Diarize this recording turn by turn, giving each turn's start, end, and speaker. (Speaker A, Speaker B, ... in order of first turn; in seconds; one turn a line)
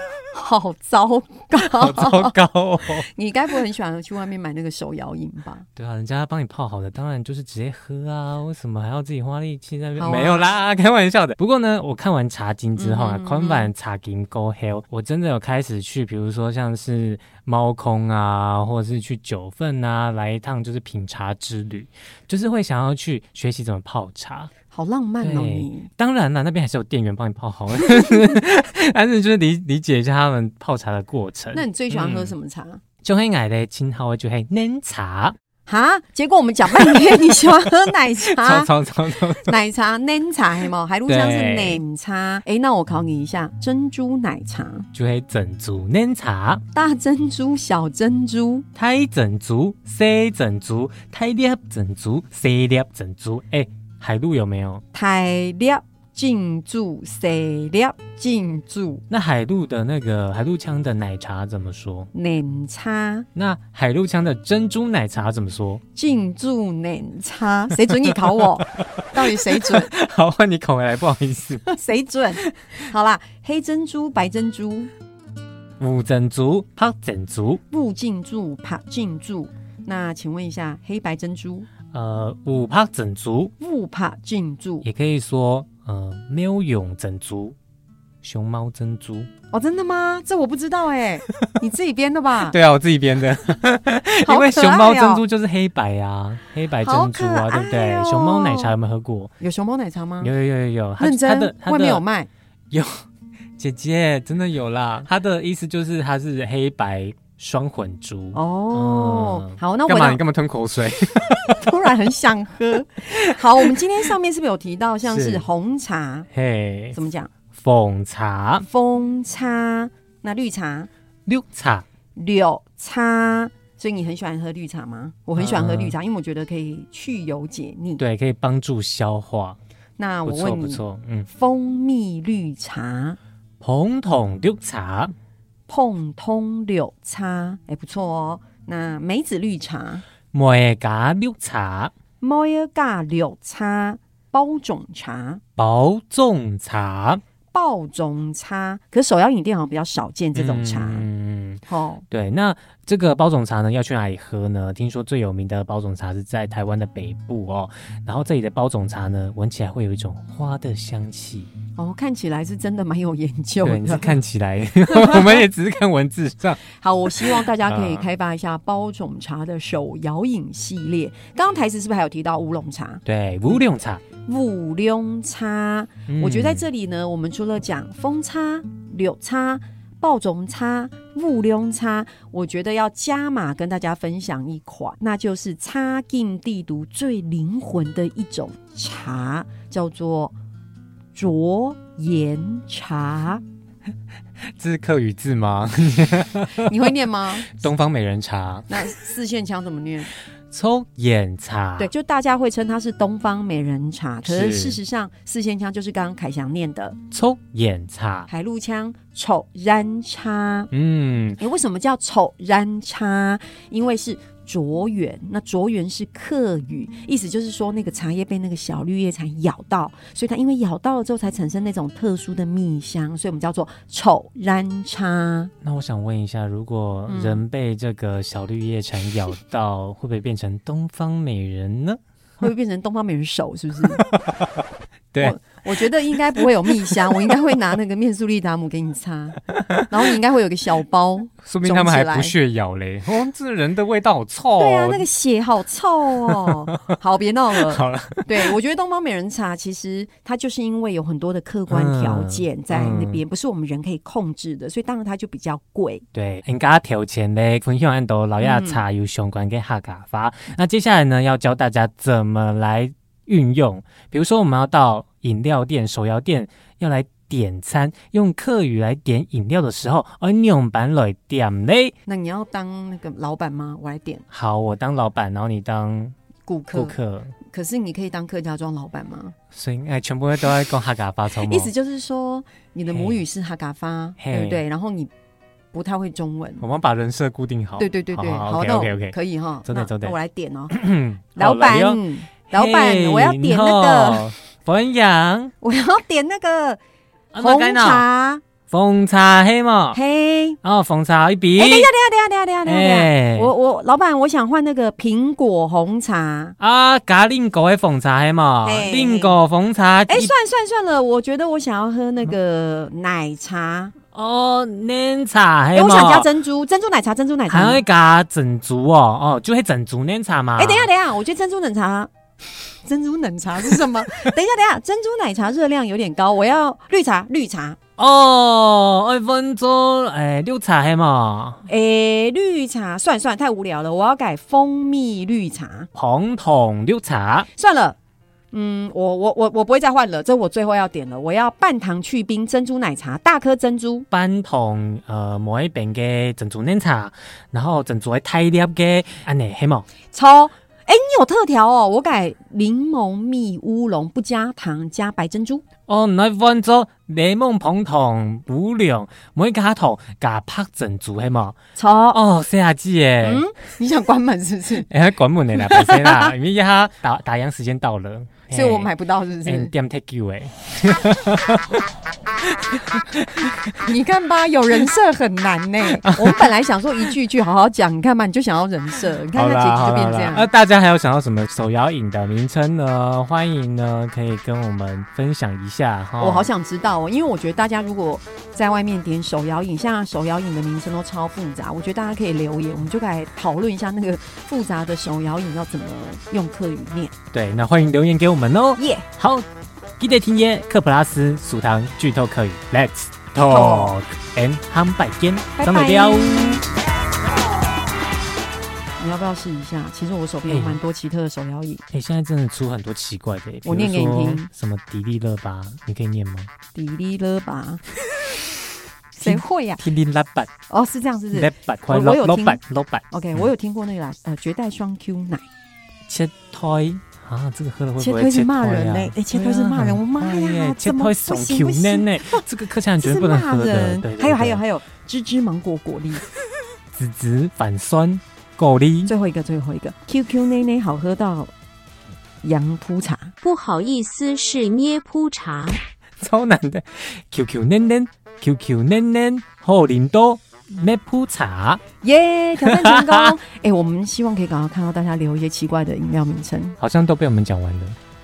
Speaker A: 0.3-2.3
Speaker B: 1.6-3.1
Speaker A: 3.0-5.6
Speaker B: 5.8-24.5
Speaker A: 10.0-10.5
Speaker A: 12.8-13.7
Speaker A: 24.7-25.9
Speaker B: 25.2-32.3
Speaker A: 31.5-32.8
Speaker B: 33.0-35.4
Speaker A: 35.7-38.7
Speaker B: 36.8-37.1
Speaker B: 38.2-39.5
Speaker A: 39.4-44.9
Speaker B: 41.1-41.8
Speaker B: 44.9-46.6
Speaker A: 46.7-48.6
Speaker B: 48.8-54.8
Speaker A: 54.9-59.0
Speaker B: 59.1-62.1
Speaker A: 62.1-63.3
Speaker B: 63.3-65.8
Speaker A: 65.9-69.9
Speaker B: 69.0-71.7
Speaker A: 71.7-74.9
Speaker B: 75.8-77.6
Speaker A: 77.7-81.7
Speaker B: 81.9-83.5
Speaker A: 83.6-84.9
Speaker B: 84.8-87.5
Speaker B: 88.2-89.3
Speaker A: 89.5-92.5
Speaker B: 92.4-99.3
Speaker A: 94.2-95.2
Speaker A: 96.8-98.7
Speaker A: 99.4-100.3
Speaker B: 100.2-102.0
Speaker A: 101.0-102.3
Speaker B: 102.7-103.0
Speaker B: 103.6-111.6
Speaker A: 108.3-110.2
Speaker A: 111.6-116.3
Speaker B: 113.1-113.8
Speaker B: 115.0-115.4
Speaker B: 116.3-117.0
Speaker A: 116.9-117.3
Speaker B: 117.5-118.7
Speaker A: 118.6-120.9
Speaker B: 121.2-121.8
Speaker A: 122.1-128.0
Speaker B: 125.3-125.9
Speaker B: 128.0-129.6
Speaker A: 130.0-133.2
Speaker B: 130.2-131.3
Speaker B: 133.6-135.1
Speaker A: 135.7-140.0
Speaker B: 140.3-141.9
Speaker A: 142.2-145.4
Speaker B: 145.6-147.2
Speaker A: 147.5-151.1
Speaker B: 150.3-161.5
Speaker A: 151.7-152.0
Speaker A: 161.8-164.1
Speaker B: 163.6-168.1
Speaker A: 164.9-165.4
Speaker A: 166.8-173.0
Speaker B: 173.0-174.0
Speaker A: 174.2-190.3
Speaker B: 176.1-176.7
Speaker A: 191.1-193.4
Speaker B: 194.6-196.9
Speaker A: 196.6-197.6
Speaker B: 197.5-198.8
Speaker A: 198.7-200.1
Speaker B: 200.5-201.9
Speaker A: 201.8-207.0
Speaker B: 204.2-204.8
Speaker B: 207.1-208.3
Speaker A: 208.3-210.7
Speaker B: 210.7-211.4
Speaker A: 211.4-225.5
Speaker B: 225.6-232.0
Speaker A: 227.1-227.4
Speaker A: 232.4-234.0
Speaker B: 233.9-234.6
Speaker B: 235.1-235.4
Speaker A: 235.2-242.3
Speaker B: 239.5-239.9
Speaker B: 241.4-245.1
Speaker A: 244.6-256.0
Speaker B: 246.2-246.5
Speaker B: 247.7-248.5
Speaker B: 251.7-253.2
Speaker B: 256.1-271.9
Speaker A: 258.4-258.8
Speaker A: 272.1-274.2
Speaker B: 274.3-276.1
Speaker A: 276.4-279.3
Speaker B: 276.7-277.3
Speaker B: 279.5-281.7
Speaker A: 281.3-285.1
Speaker B: 282.9-283.2
Speaker B: 284.2-284.6
Speaker A: 285.7-286.6
Speaker B: 286.6-290.1
Speaker A: 287.8-290.8
Speaker B: 290.7-292.0
Speaker A: 291.4-294.2
Speaker B: 292.5-295.5
Speaker A: 295.6-296.8
Speaker B: 297.3-298.0
Speaker A: 297.4-298.4
Speaker B: 298.7-300.0
Speaker A: 299.9-300.6
Speaker B: 300.6-301.9
Speaker A: 301.6-306.6
Speaker B: 302.6-303.5
Speaker B: 306.6-310.3
Speaker A: 308.6-309.4
Speaker A: 310.1-313.9
Speaker B: 314.1-316.3
Speaker A: 315.7-317.8
Speaker B: 317.5-320.9
Speaker A: 320.6-322.1
Speaker A: 322.9-327.8
Speaker B: 328.0-331.6
Speaker A: 331.7-335.9
Speaker B: 335.9-337.5
Speaker A: 337.6-338.0
Speaker A: 338.5-344.1
Speaker B: 344.1-349.9
Speaker A: 350.1-355.6
Speaker B: 355.9-361.6
Speaker A: 361.8-362.2
Speaker B: 362.1-363.4
Speaker A: 363.2-364.9
Speaker B: 364.9-368.9
Speaker A: 365.6-366.3
Speaker A: 368.5-369.7
Speaker B: 369.4-371.8
Speaker B: 372.5-373.5
Speaker A: 373.8-380.5
Speaker B: 376.0-376.4
Speaker B: 379.4-386.5
Speaker A: 386.2-397.1
Speaker B: 397.3-399.4
Speaker A: 398.8-399.1
Speaker B: 400.0-406.6
Speaker A: 403.4-404.0
Speaker A: 405.6-406.6
Speaker A: 409.0-411.8
Speaker B: 410.5-410.8
Speaker B: 411.9-416.5
Speaker A: 413.6-414.5
Speaker A: 416.7-417.8
Speaker A: 419.1-419.8
Speaker B: 419.2-420.5
Speaker A: 420.7-422.6
Speaker B: 421.3-423.5
Speaker A: 423.1-425.4
Speaker B: 426.1-434.6
Speaker A: 428.0-432.5
Speaker A: 433.0-436.2
Speaker B: 436.9-439.1
Speaker A: 439.1-441.5
Speaker A: 442.4-443.4
Speaker C: 443.4-445.8
Speaker B: 446.2-451.8
Speaker A: 452.0-456.8
Speaker B: 452.6-453.3
Speaker B: 456.8-458.0